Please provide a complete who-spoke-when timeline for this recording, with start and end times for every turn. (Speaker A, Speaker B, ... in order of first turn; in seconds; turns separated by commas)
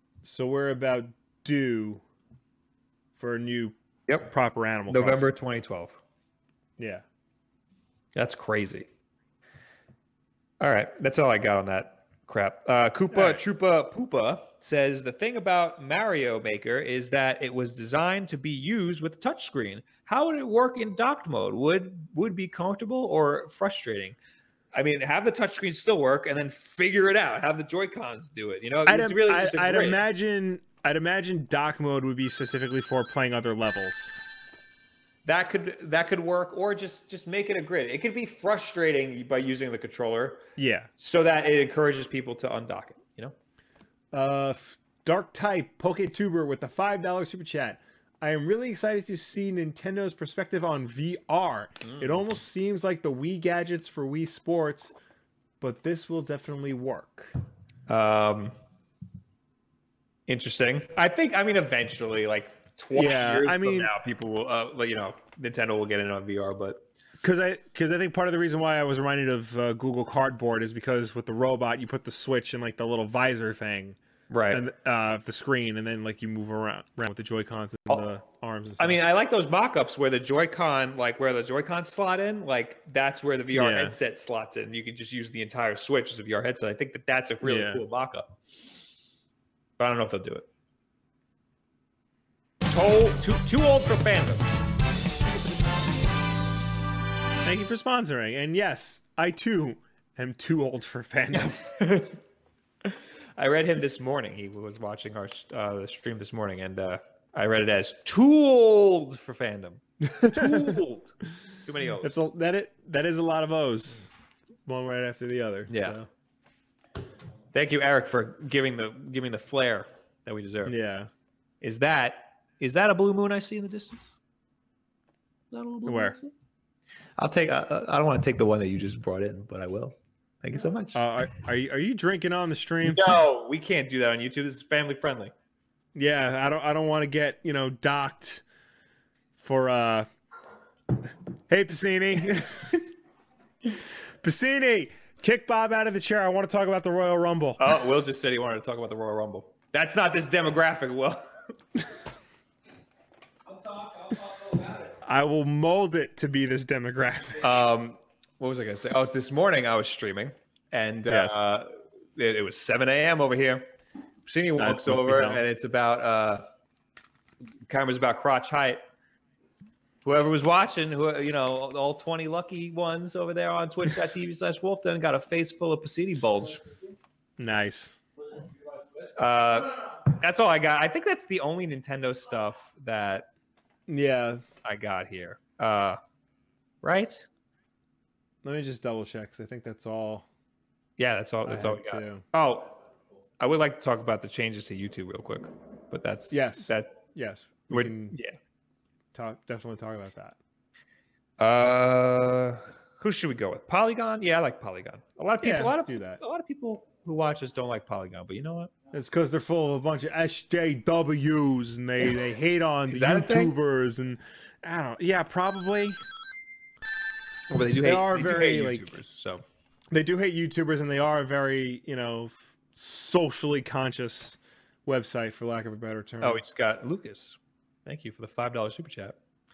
Speaker A: 0.2-2.0, Speaker A: 3.2-5.3, Speaker B: 4.9-6.0, Speaker A: 6.8-7.0, Speaker B: 8.2-8.9, Speaker B: 10.6-24.1, Speaker A: 13.1-13.4, Speaker B: 24.7-30.0, Speaker A: 28.9-34.1, Speaker B: 35.2-40.4, Speaker A: 40.6-40.9, Speaker B: 41.0-43.3, Speaker A: 44.1-54.9, Speaker B: 51.8-52.2, Speaker A: 55.6-57.3, Speaker B: 57.9-58.5, Speaker B: 60.3-66.8, Speaker A: 62.9-63.9, Speaker A: 67.2-74.0, Speaker B: 74.3-74.6, Speaker A: 74.5-79.0, Speaker B: 78.8-88.4, Speaker A: 83.5-84.0, Speaker A: 87.4-87.8, Speaker B: 89.8-90.5, Speaker B: 92.7-94.5, Speaker A: 97.4-101.6, Speaker B: 101.3-102.2, Speaker B: 102.8-111.1, Speaker A: 110.0-110.8, Speaker B: 111.6-112.1, Speaker A: 112.0-114.1, Speaker A: 114.7-116.1, Speaker B: 115.7-116.0, Speaker B: 117.5-120.7, Speaker A: 120.7-121.1, Speaker B: 121.6-124.1, Speaker B: 125.5-126.3, Speaker A: 125.8-126.2, Speaker B: 127.2-131.0, Speaker A: 130.9-133.2, Speaker B: 132.8-135.3, Speaker A: 135.9-138.4, Speaker A: 139.4-140.1, Speaker A: 141.5-142.9, Speaker A: 144.2-147.8, Speaker B: 147.6-151.2, Speaker B: 153.5-154.9, Speaker A: 155.0-157.5, Speaker B: 157.4-163.7, Speaker A: 161.1-161.4, Speaker B: 164.2-166.4, Speaker A: 164.6-165.4, Speaker B: 167.7-168.8, Speaker B: 170.0-176.6, Speaker A: 177.4-178.0, Speaker B: 179.2-183.3, Speaker A: 183.9-184.4, Speaker B: 184.6-186.0, Speaker B: 186.8-187.3, Speaker A: 188.4-190.2, Speaker B: 191.0-192.7, Speaker A: 191.4-192.2, Speaker B: 193.4-196.9, Speaker A: 196.3-198.1, Speaker B: 197.7-198.3, Speaker A: 199.1-200.4, Speaker B: 201.4-208.7, Speaker A: 205.4-206.2, Speaker A: 208.9-216.0, Speaker B: 212.9-213.5, Speaker B: 217.5-219.4, Speaker A: 217.8-218.9, Speaker A: 219.9-226.4, Speaker B: 226.2-229.2